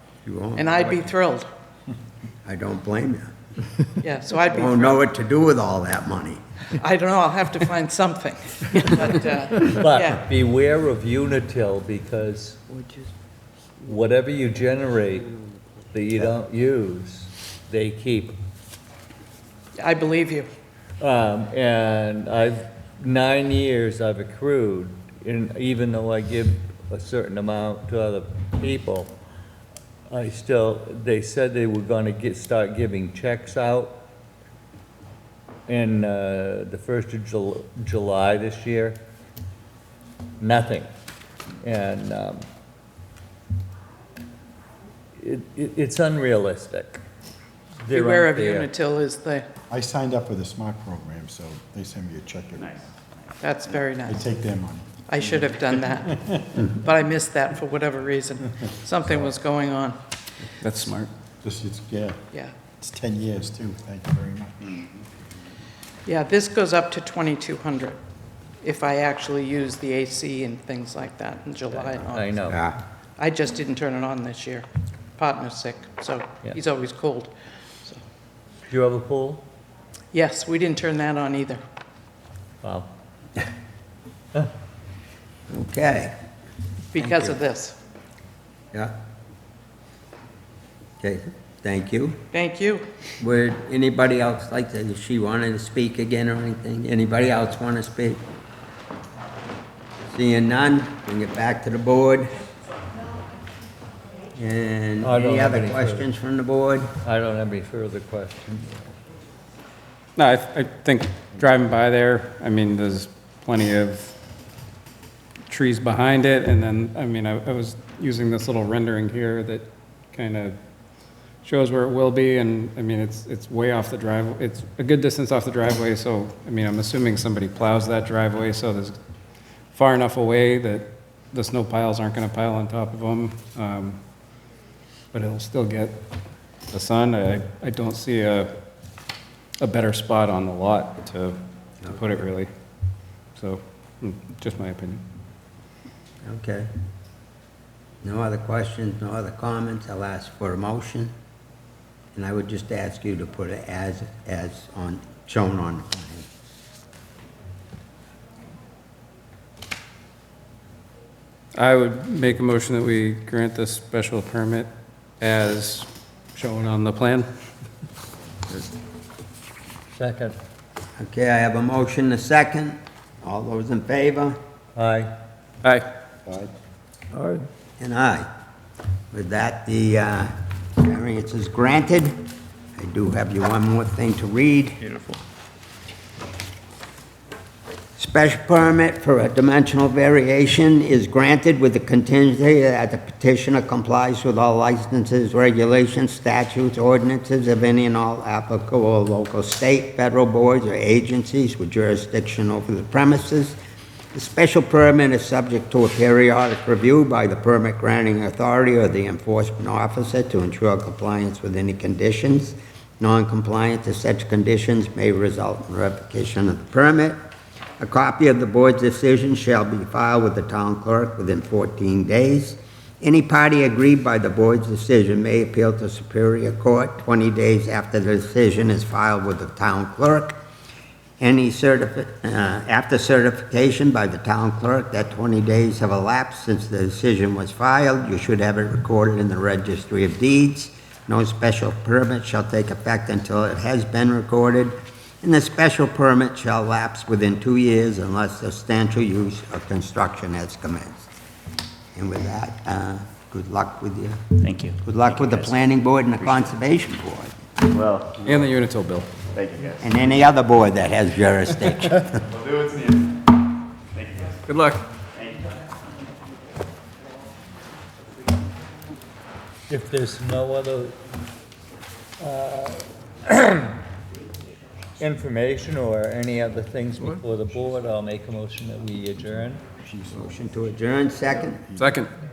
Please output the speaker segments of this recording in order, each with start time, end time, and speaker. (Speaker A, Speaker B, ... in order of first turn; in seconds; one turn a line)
Speaker A: 0.3-1.1
Speaker B: 0.6-1.5
Speaker A: 2.5-3.3
Speaker B: 4.0-5.0
Speaker A: 4.5-6.4
Speaker B: 6.7-10.2
Speaker C: 9.6-12.8
Speaker C: 13.8-15.4
Speaker C: 15.9-18.4
Speaker B: 19.8-20.5
Speaker C: 21.0-29.1
Speaker C: 30.1-34.0
Speaker C: 35.7-39.0
Speaker C: 40.4-40.9
Speaker C: 41.6-42.4
Speaker C: 45.2-47.0
Speaker C: 47.8-48.7
Speaker B: 47.9-49.5
Speaker D: 49.7-52.8
Speaker B: 53.4-54.3
Speaker D: 54.1-55.1
Speaker B: 55.1-60.0
Speaker D: 56.1-56.4
Speaker E: 60.6-61.1
Speaker D: 61.4-62.2
Speaker D: 62.8-64.8
Speaker B: 66.1-68.0
Speaker B: 68.6-72.5
Speaker C: 72.1-72.6
Speaker A: 72.5-72.8
Speaker B: 73.2-78.0
Speaker C: 78.7-79.4
Speaker B: 80.1-81.6
Speaker C: 82.6-82.9
Speaker A: 85.5-86.2
Speaker B: 86.9-87.8
Speaker A: 87.0-87.3
Speaker A: 91.0-92.2
Speaker B: 92.3-92.8
Speaker A: 93.2-98.2
Speaker A: 100.1-102.3
Speaker A: 104.3-106.9
Speaker C: 105.0-106.0
Speaker C: 107.0-108.9
Speaker E: 110.2-114.2
Speaker E: 115.5-120.6
Speaker E: 121.4-128.9
Speaker E: 129.7-134.0
Speaker E: 135.1-135.9
Speaker E: 136.7-138.5
Speaker E: 139.6-142.5
Speaker A: 141.8-142.2
Speaker E: 143.4-145.0
Speaker A: 146.2-146.7
Speaker A: 148.0-151.1
Speaker A: 152.2-156.3
Speaker E: 161.6-164.7
Speaker E: 165.2-167.3
Speaker C: 170.0-170.4
Speaker A: 171.0-174.4
Speaker C: 174.8-175.1
Speaker D: 176.3-176.5
Speaker A: 177.8-178.3
Speaker A: 179.1-184.8
Speaker F: 184.9-185.2
Speaker A: 188.0-203.6
Speaker A: 204.1-217.2
Speaker A: 217.8-230.4
Speaker A: 231.2-251.1
Speaker A: 252.0-257.3
Speaker F: 254.4-255.5
Speaker F: 257.7-258.2
Speaker E: 258.2-259.1
Speaker F: 259.4-259.8
Speaker A: 259.8-262.3
Speaker F: 262.4-263.1
Speaker F: 264.0-264.4
Speaker E: 264.5-264.9
Speaker C: 269.7-271.0
Speaker C: 272.2-273.8
Speaker C: 275.0-279.6
Speaker D: 279.8-280.4
Speaker A: 280.1-281.7
Speaker E: 281.8-282.1